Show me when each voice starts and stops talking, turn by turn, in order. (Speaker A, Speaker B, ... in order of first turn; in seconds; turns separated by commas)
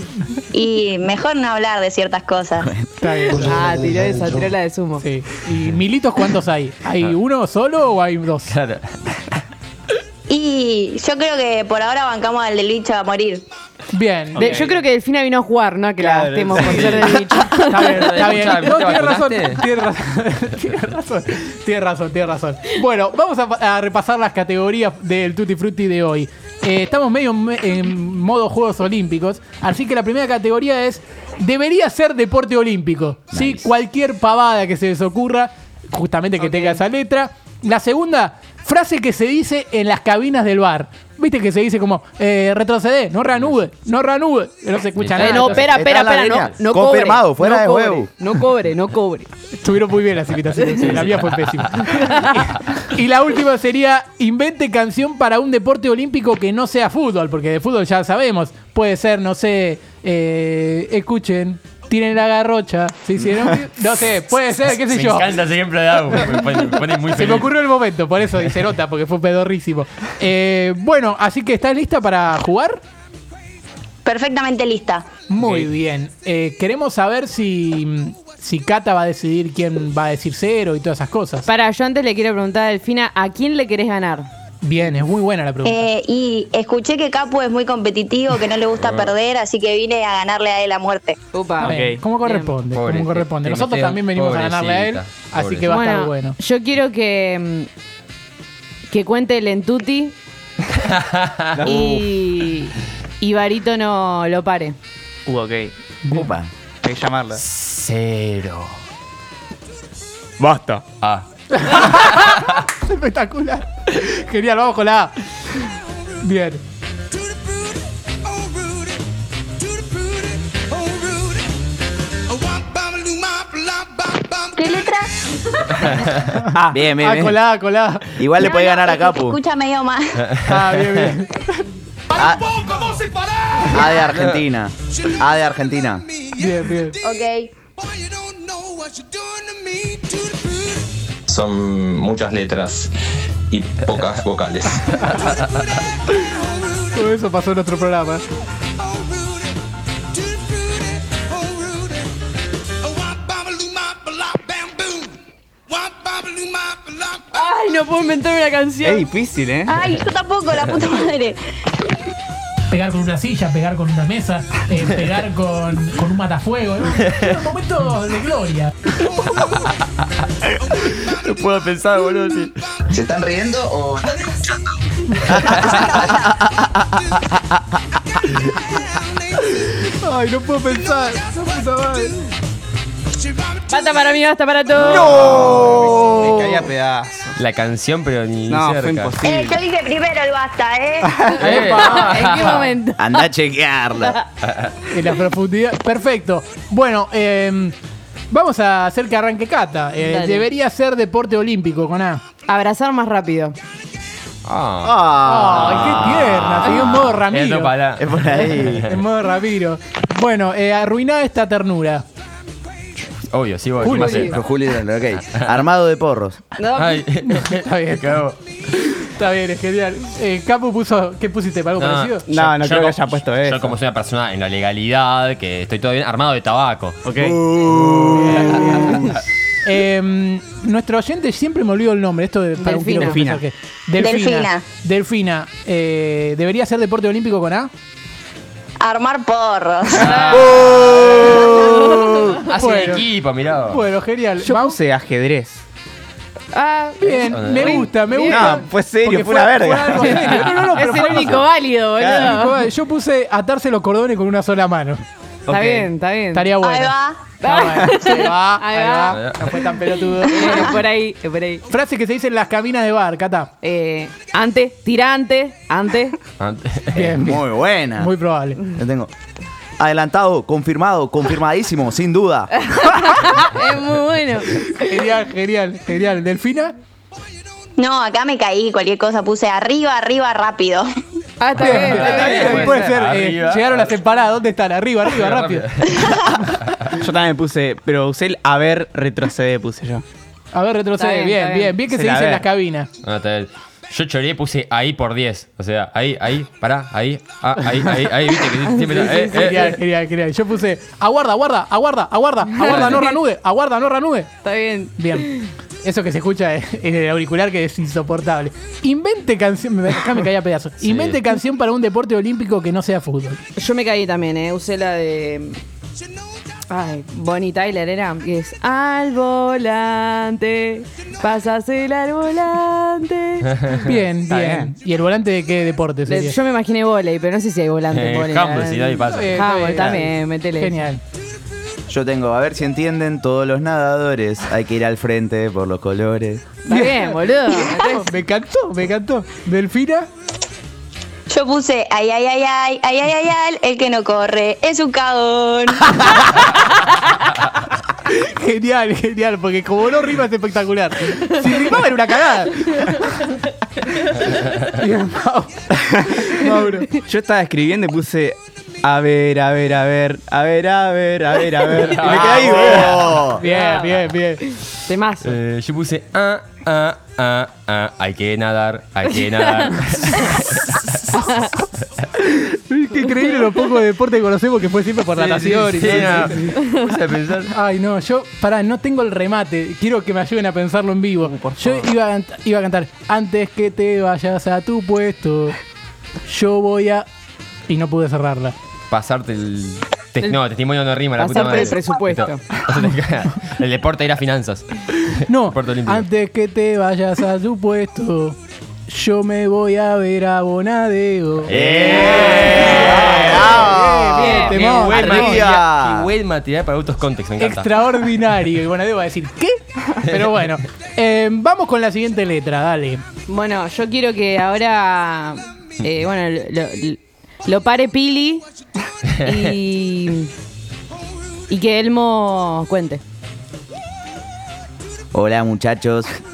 Speaker A: 0.5-2.7, Speaker B: 3.0-3.6, Speaker C: 3.3-5.0, Speaker B: 5.0-8.5, Speaker D: 8.5-9.4, Speaker A: 10.3-13.4, Speaker B: 13.9-14.6, Speaker E: 14.3-14.8, Speaker C: 14.4-17.9, Speaker E: 15.9-18.0, Speaker B: 16.5-45.6, Speaker D: 16.6-17.1, Speaker D: 18.0-19.6, Speaker F: 33.3-33.7, Speaker D: 45.0-45.7, Speaker C: 45.2-49.2, Speaker F: 45.5-48.1, Speaker B: 49.5-65.3, Speaker D: 50.8-52.5, Speaker D: 64.8-67.5, Speaker B: 66.1-66.4, Speaker B: 67.1-72.8, Speaker A: 74.0-75.1, Speaker B: 75.3-81.5, Speaker D: 75.4-75.7, Speaker C: 81.5-84.3, Speaker B: 84.6-85.8, Speaker A: 85.6-91.2, Speaker D: 88.8-89.2, Speaker C: 91.3-91.7, Speaker E: 91.6-92.0, Speaker B: 91.6-96.4, Speaker D: 92.7-95.8, Speaker C: 95.7-97.7, Speaker C: 98.9-100.1, Speaker D: 100.8-101.7, Speaker E: 101.5-102.2, Speaker C: 101.7-104.8, Speaker E: 105.2-105.7, Speaker F: 106.1-106.5, Speaker E: 106.8-107.4, Speaker D: 107.4-108.7, Speaker E: 110.4-110.8, Speaker D: 111.0-112.6, Speaker B: 111.5-115.2, Speaker B: 116.2-116.6, Speaker A: 124.4-125.9, Speaker D: 125.8-126.2, Speaker B: 126.3-128.2, Speaker F: 126.6-127.4, Speaker F: 128.2-129.4, Speaker A: 128.4-130.2, Speaker D: 130.2-131.1, Speaker B: 130.4-131.6, Speaker F: 132.1-132.6, Speaker B: 132.7-133.0, Speaker F: 133.6-136.1, Speaker B: 136.3-137.0, Speaker A: 137.0-137.5, Speaker G: 141.3-142.9, Speaker G: 143.5-145.2, Speaker B: 146.8-148.2, Speaker C: 157.3-158.9, Speaker E: 158.8-159.8, Speaker A: 159.7-161.4, Speaker B: 162.7-168.9, Speaker D: 169.0-172.8, Speaker G: 172.9-174.2, Speaker F: 173.0-173.7, Speaker F: 175.3-177.8, Speaker D: 175.6-176.0, Speaker B: 179.6-182.2, Speaker C: 183.7-185.1, Speaker E: 184.7-187.4, Speaker D: 187.4-189.2, Speaker E: 188.5-189.6, Speaker A: 189.2-191.9, Speaker E: 191.0-192.3, Speaker D: 191.4-192.8, Speaker C: 191.6-193.0, Speaker F: 193.0-194.2, Speaker D: 194.4-194.7, Speaker B: 194.9-197.8, Speaker B: 198.3-202.2, Speaker C: 200.1-200.3, Speaker C: 202.5-203.5, Speaker D: 204.4-208.9, Speaker F: 204.8-205.9, Speaker B: 205.2-207.7, Speaker F: 208.0-208.9, Speaker B: 208.8-212.0, Speaker D: 213.0-214.4, Speaker B: 213.8-214.3, Speaker F: 213.9-216.4, Speaker C: 216.6-216.8, Speaker D: 216.7-218.4, Speaker B: 217.3-222.2, Speaker D: 221.8-229.0, Speaker E: 222.3-223.8, Speaker E: 227.0-229.0, Speaker F: 227.6-228.3, Speaker B: 228.2-229.0, Speaker B: 229.6-237.7, Speaker C: 232.6-233.1, Speaker E: 232.9-233.4, Speaker A: 233.9-234.6, Speaker A: 238.8-242.0, Speaker D: 239.9-241.2, Speaker E: 240.2-242.2, Speaker B: 241.2-243.1, Speaker D: 242.4-243.8, Speaker B: 243.6-244.8, Speaker E: 244.4-245.6, Speaker C: 246.5-248.5, Speaker B: 247.0-251.5, Speaker D: 247.3-247.9, Speaker E: 248.2-250.6, Speaker D: 250.6-251.2, Speaker C: 250.6-252.5, Speaker E: 251.9-252.4, Speaker B: 252.0-255.0, Speaker E: 255.5-255.9, Speaker C: 255.5-256.5, Speaker B: 256.3-260.8, Speaker A: 256.6-257.3, Speaker C: 257.4-259.1, Speaker D: 259.1-259.5, Speaker C: 260.2-261.6, Speaker B: 261.7-263.5, Speaker C: 263.6-266.2, Speaker D: 266.4-267.2, Speaker B: 266.9-268.6, Speaker F: 267.1-268.1, Speaker F: 268.6-269.1, Speaker F: 269.8-272.8, Speaker C: 272.8-274.7, Speaker B: 274.7-276.7, Speaker A: 277.8-280.9, Speaker C: 281.4-282.4, Speaker D: 281.5-284.0, Speaker B: 281.6-285.6, Speaker E: 281.7-283.0, Speaker D: 285.1-286.8, Speaker E: 286.9-290.0, Speaker B: 290.5-292.9, Speaker C: 291.0-291.7, Speaker E: 291.8-292.5, Speaker D: 293.0-299.8, Speaker B: 298.9-304.3, Speaker D: 302.6-303.1, Speaker C: 304.4-305.2, Speaker B: 304.9-313.4, Speaker D: 310.8-311.2, Speaker C: 313.6-315.6, Speaker C: 316.7-323.4, Speaker D: 323.4-323.9, Speaker B: 323.7-326.4, Speaker E: 324.2-324.7, Speaker C: 326.1-330.8, Speaker D: 327.9-330.0, Speaker B: 329.0-331.0, Speaker F: 331.9-336.4, Speaker C: 336.7-338.0, Speaker B: 336.7-340.1, Speaker A: 341.3-346.2, Speaker B: 346.0-346.4, Speaker B: 348.1-356.9, Speaker E: 355.9-356.4, Speaker E: 356.9-363.0, Speaker D: 361.9-363.1, Speaker F: 362.0-363.4, Speaker B: 363.2-364.5, Speaker C: 363.4-363.9, Speaker C: 364.9-365.2, Speaker D: 365.2-371.2, Speaker B: 372.2-376.6, Speaker E: 375.2-376.3, Speaker D: 375.6-377.5, Speaker B: 377.5-385.6, Speaker E: 381.2-381.9, Speaker B: 386.2-387.1, Speaker B: 387.7-388.5, Speaker D: 388.9-396.1, Speaker C: 391.2-392.3, Speaker E: 391.3-392.4, Speaker B: 395.2-405.4, Speaker D: 401.4-403.6, Speaker F: 401.5-406.1, Speaker D: 404.1-407.7, Speaker B: 407.4-413.0, Speaker C: 413.3-418.4, Speaker D: 419.1-419.5, Speaker C: 419.2-420.3, Speaker C: 421.5-423.0, Speaker F: 425.1-426.1